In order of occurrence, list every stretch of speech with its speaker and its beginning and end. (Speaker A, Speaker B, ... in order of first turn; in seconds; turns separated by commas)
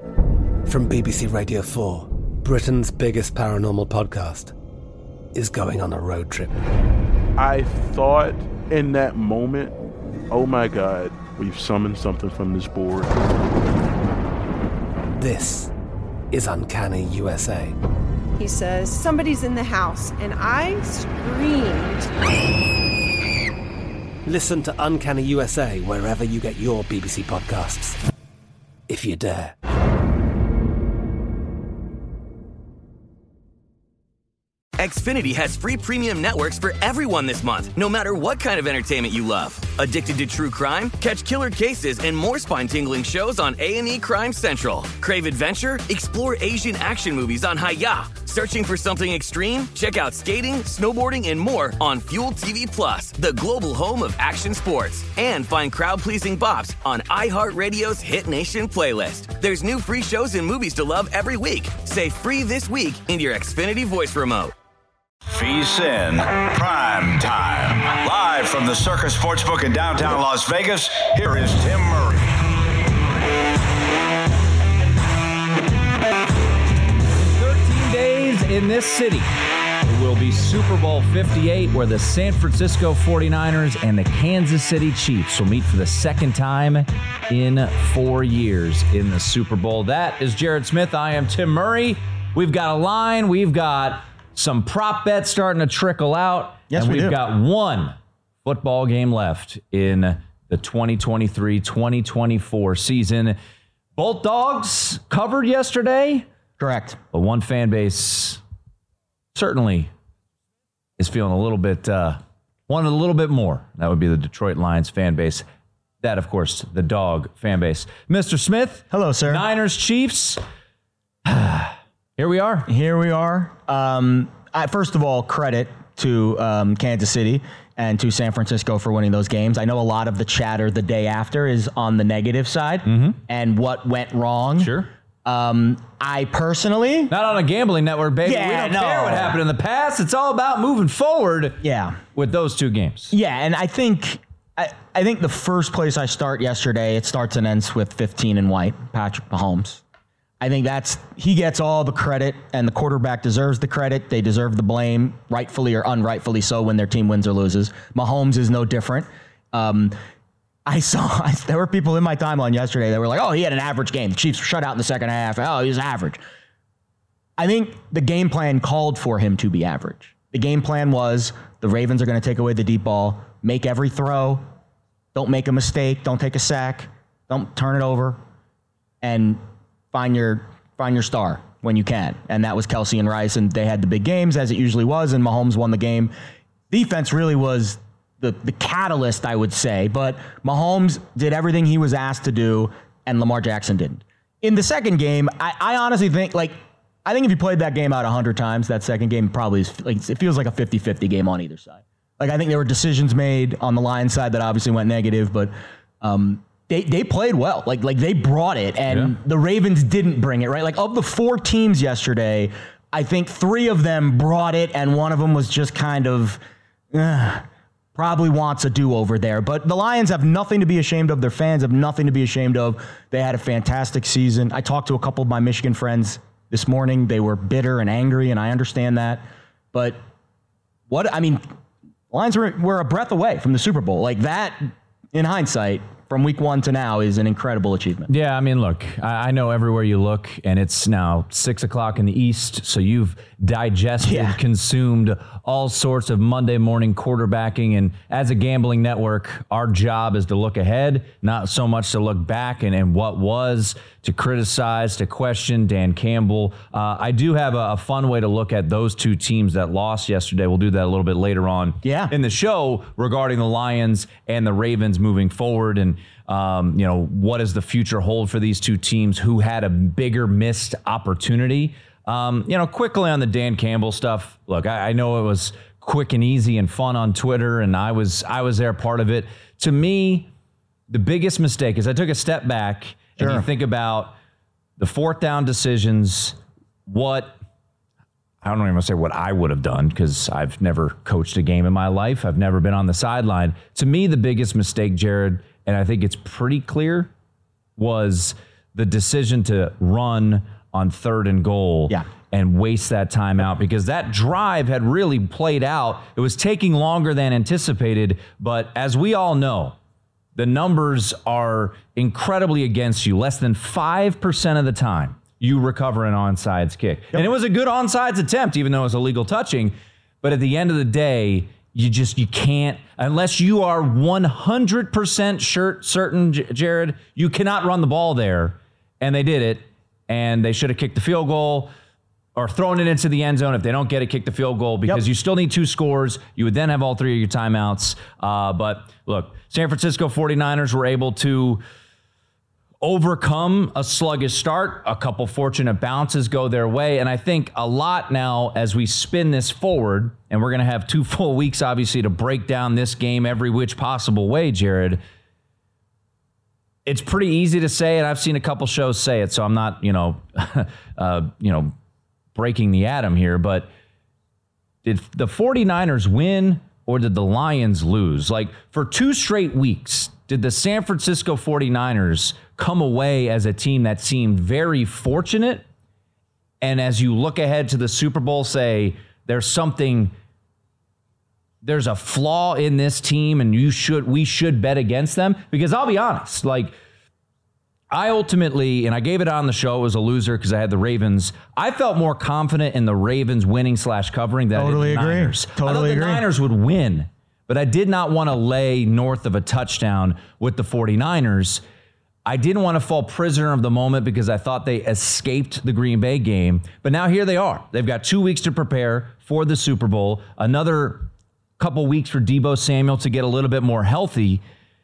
Speaker A: 0.7-4.5, Speaker A: 5.3-6.5, Speaker B: 7.4-9.7, Speaker B: 10.3-13.1, Speaker A: 15.2-15.7, Speaker A: 16.3-17.8, Speaker C: 18.4-22.1, Speaker A: 24.3-28.0, Speaker A: 28.9-29.6, Speaker D: 34.8-64.5, Speaker E: 65.3-72.3, Speaker F: 77.2-79.3, Speaker F: 79.8-103.4, Speaker G: 96.7-97.2, Speaker F: 104.0-106.2, Speaker G: 106.6-107.0, Speaker F: 107.1-108.4, Speaker F: 109.3-109.9, Speaker F: 111.0-115.4, Speaker F: 116.0-120.4, Speaker G: 118.9-119.4, Speaker F: 121.2-122.7, Speaker G: 122.7-134.7, Speaker F: 132.8-133.2, Speaker F: 134.6-134.9, Speaker G: 135.2-137.1, Speaker F: 137.1-141.6, Speaker G: 138.2-139.4, Speaker G: 141.6-142.0, Speaker F: 142.2-143.1, Speaker G: 143.1-149.8, Speaker G: 150.4-160.0, Speaker G: 160.7-166.2, Speaker G: 167.4-174.4, Speaker G: 175.1-178.2, Speaker G: 179.0-179.4, Speaker G: 179.9-186.1, Speaker G: 186.7-216.4, Speaker F: 208.9-209.2, Speaker G: 216.9-230.0, Speaker G: 230.9-231.4, Speaker G: 232.1-238.1, Speaker F: 238.1-280.3, Speaker G: 244.0-244.4, Speaker G: 261.8-262.1, Speaker F: 280.9-284.1, Speaker G: 283.2-283.5, Speaker F: 284.8-287.4, Speaker F: 288.4-297.1, Speaker F: 297.8-309.8, Speaker F: 310.4-331.7, Speaker F: 332.4-341.6, Speaker F: 342.8-355.0, Speaker F: 356.9-361.7, Speaker F: 362.4-363.7, Speaker F: 364.8-375.6, Speaker F: 376.6-380.1, Speaker F: 381.6-386.7, Speaker F: 387.9-401.6, Speaker G: 394.5-396.2, Speaker F: 402.2-411.1, Speaker F: 411.6-414.4